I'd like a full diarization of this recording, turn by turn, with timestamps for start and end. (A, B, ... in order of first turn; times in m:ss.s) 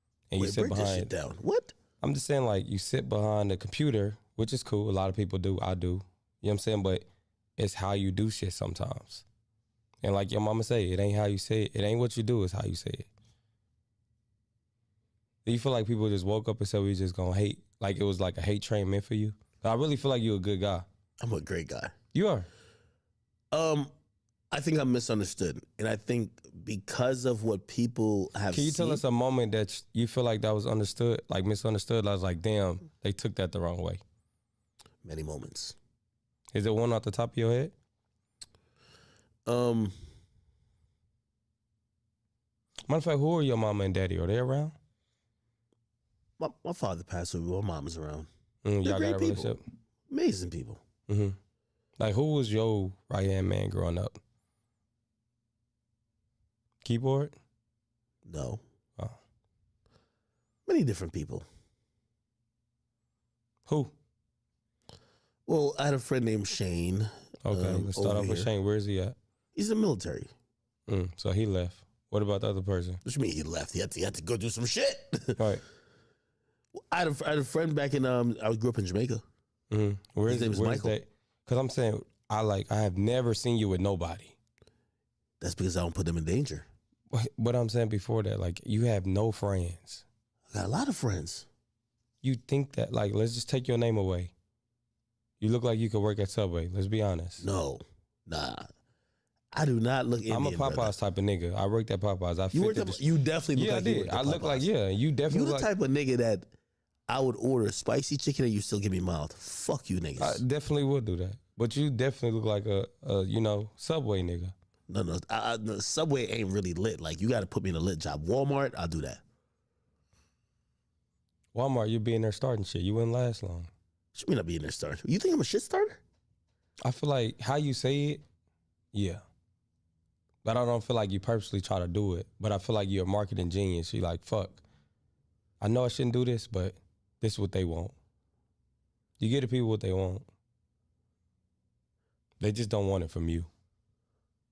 0:00.3-0:01.1 A
0:00.4-0:01.7 B
0:02.0-0:09.2 A
0:10.0-0:13.1 A
0:15.4-0:20.9 A
0:21.2-0:21.9 B
0:22.1-0:22.5 A
0:23.5-0:23.9 B
0:24.5-0:29.0 B
0:28.5-0:34.0 A
0:35.0-0:35.8 B
0:36.5-0:37.7 A
0:39.5-0:40.0 B
0:42.9-0:44.8 A
0:46.4-0:48.3 B
0:48.6-0:49.6 A
0:48.8-0:49.5 B
0:50.1-0:50.8 B
0:51.1-0:51.4 A
0:52.0-0:54.2 A
0:56.8-0:57.4 A
0:58.3-0:58.6 B
1:00.7-1:01.5 B
1:03.7-1:03.9 A
1:05.5-1:08.5 B
1:07.4-1:09.2 A
1:09.6-1:10.3 B
1:10.9-1:13.0 A
1:13.0-1:15.4 B
1:16.8-1:19.2 B
1:19.7-1:24.4 A
1:20.3-1:21.0 B
1:25.4-1:26.7 B
1:27.1-1:30.0 A
1:30.5-1:31.5 B
1:32.2-1:34.3 A
1:35.4-1:37.4 A
1:37.4-1:38.7 B
1:39.5-1:40.9 B
1:40.3-1:43.0 A
1:42.5-1:44.7 B
1:43.5-1:45.7 A
1:45.3-1:46.5 B
1:47.1-1:50.4 B
1:50.2-1:54.5 A
1:54.9-1:59.2 B
2:01.5-2:03.7 A
2:04.1-2:06.0 B
2:06.8-2:08.2 A
2:08.9-2:09.2 A
2:10.4-2:14.6 A
2:15.6-2:18.0 A
2:19.2-2:20.3 A
2:22.4-2:23.5 A